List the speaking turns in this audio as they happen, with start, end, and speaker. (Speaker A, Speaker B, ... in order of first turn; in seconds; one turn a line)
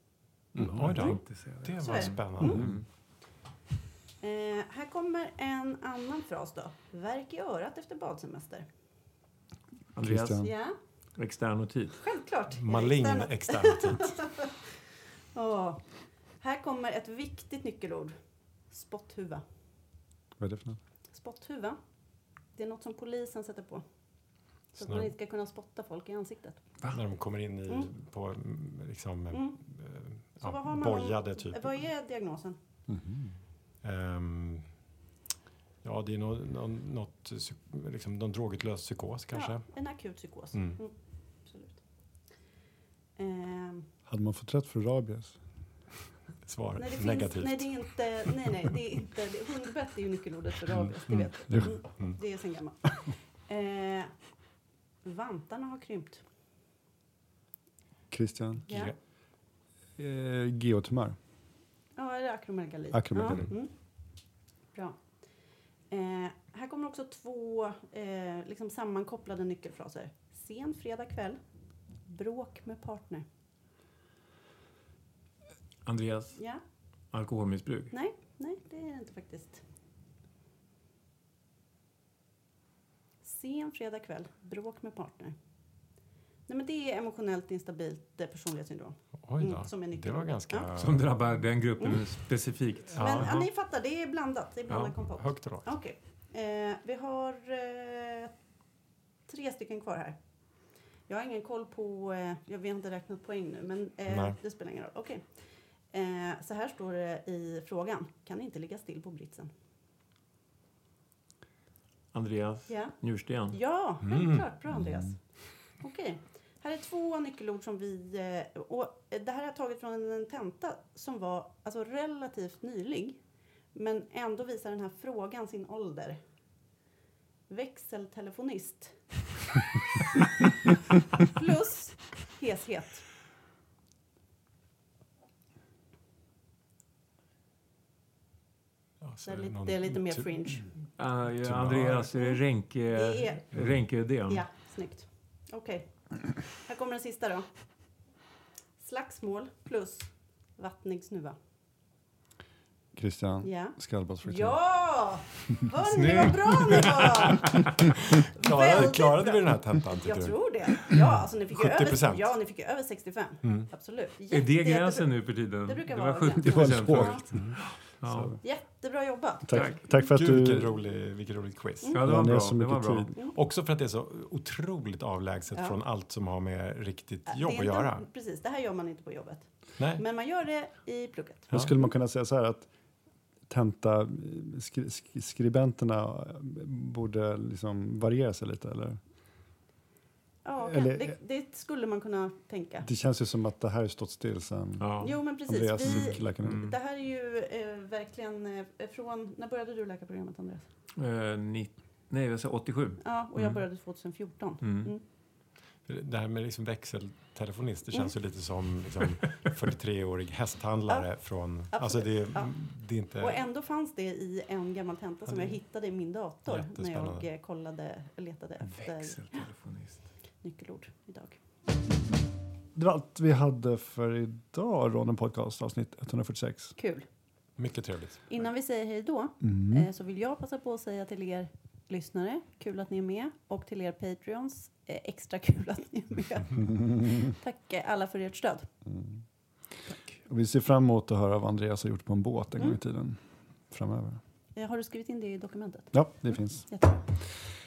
Speaker A: 0.5-1.0
Speaker B: 0.6-2.8
Speaker C: 0.6-2.7
Speaker D: 1.8-2.6
Speaker A: 2.4-2.8
Speaker D: 4.2-8.7
Speaker B: 9.9-10.6
Speaker A: 10.0-10.5
Speaker D: 10.4-10.8
Speaker B: 11.1-12.0
Speaker D: 12.0-14.6
Speaker C: 12.5-14.4
Speaker D: 15.3-19.4
Speaker A: 20.4-20.8
Speaker D: 21.1-26.6
Speaker C: 24.7-25.1
Speaker C: 26.9-31.8
Speaker D: 29.3-29.6
Speaker D: 30.4-32.6
Speaker A: 32.9-33.3
Speaker C: 33.8-34.7
Speaker C: 35.8-40.8
Speaker D: 39.3-41.8
Speaker D: 43.1-43.9
Speaker A: 44.1-45.4
Speaker C: 46.4-48.3
Speaker D: 46.8-54.4
Speaker C: 51.1-52.2
Speaker D: 55.0-56.2
Speaker A: 58.1-58.7
Speaker D: 58.7-58.9
Speaker C: 58.7-59.0
Speaker A: 60.0-61.2
Speaker D: 61.9-71.4
Speaker A: 62.9-63.5
Speaker D: 71.9-73.2
Speaker B: 75.8-76.4
Speaker B: 77.1-77.9
Speaker D: 77.9-79.6
Speaker D: 83.2-85.3
Speaker D: 86.5-90.7
Speaker C: 89.2-91.1
Speaker B: 90.8-93.4
Speaker C: 92.9-93.5
Speaker D: 92.9-98.4
Speaker C: 94.7-95.7
Speaker D: 99.2-109.5
Speaker C: 104.1-104.4
Speaker B: 112.1-113.6
Speaker D: 112.7-126.2
Speaker C: 114.0-114.4
Speaker A: 114.7-115.1
Speaker D: 127.5-129.7
Speaker D: 131.2-133.1
Speaker C: 139.0-140.8
Speaker D: 139.2-140.9
Speaker B: 141.0-144.4
Speaker C: 141.4-142.0
Speaker D: 142.1-148.0
Speaker D: 148.8-151.3
Speaker A: 152.9-154.8
Speaker D: 153.4-157.8
Speaker B: 155.9-157.4
Speaker C: 158.3-160.9
Speaker D: 158.4-167.3
Speaker C: 161.5-162.4
Speaker C: 163.4-163.7
Speaker B: 164.3-168.3
Speaker A: 166.4-168.4
Speaker D: 168.4-169.9
Speaker A: 169.4-170.8
Speaker B: 169.5-169.8
Speaker C: 170.1-172.0
Speaker B: 171.9-173.1
Speaker A: 172.0-173.1
Speaker C: 173.3-178.1
Speaker D: 177.3-181.8
Speaker C: 179.8-180.0
Speaker A: 181.5-182.7
Speaker A: 183.5-189.0
Speaker D: 190.4-192.9
Speaker A: 190.6-191.2
Speaker A: 192.8-196.7
Speaker B: 194.8-195.3
Speaker D: 195.0-200.6
Speaker B: 195.8-196.7
Speaker B: 200.9-203.6
Speaker D: 203.0-205.0
Speaker B: 204.6-204.9
Speaker C: 205.8-213.4
Speaker D: 211.7-212.5
Speaker D: 213.2-219.4
Speaker C: 215.2-215.6
Speaker C: 216.4-217.2
Speaker B: 218.6-220.0
Speaker D: 220.4-221.4
Speaker A: 222.7-226.7
Speaker D: 226.8-227.1
Speaker C: 227.6-228.5
Speaker D: 228.3-238.7
Speaker A: 229.4-229.9
Speaker A: 238.9-239.2
Speaker B: 239.9-240.2
Speaker A: 240.2-244.2
Speaker D: 244.5-247.0
Speaker A: 245.9-247.5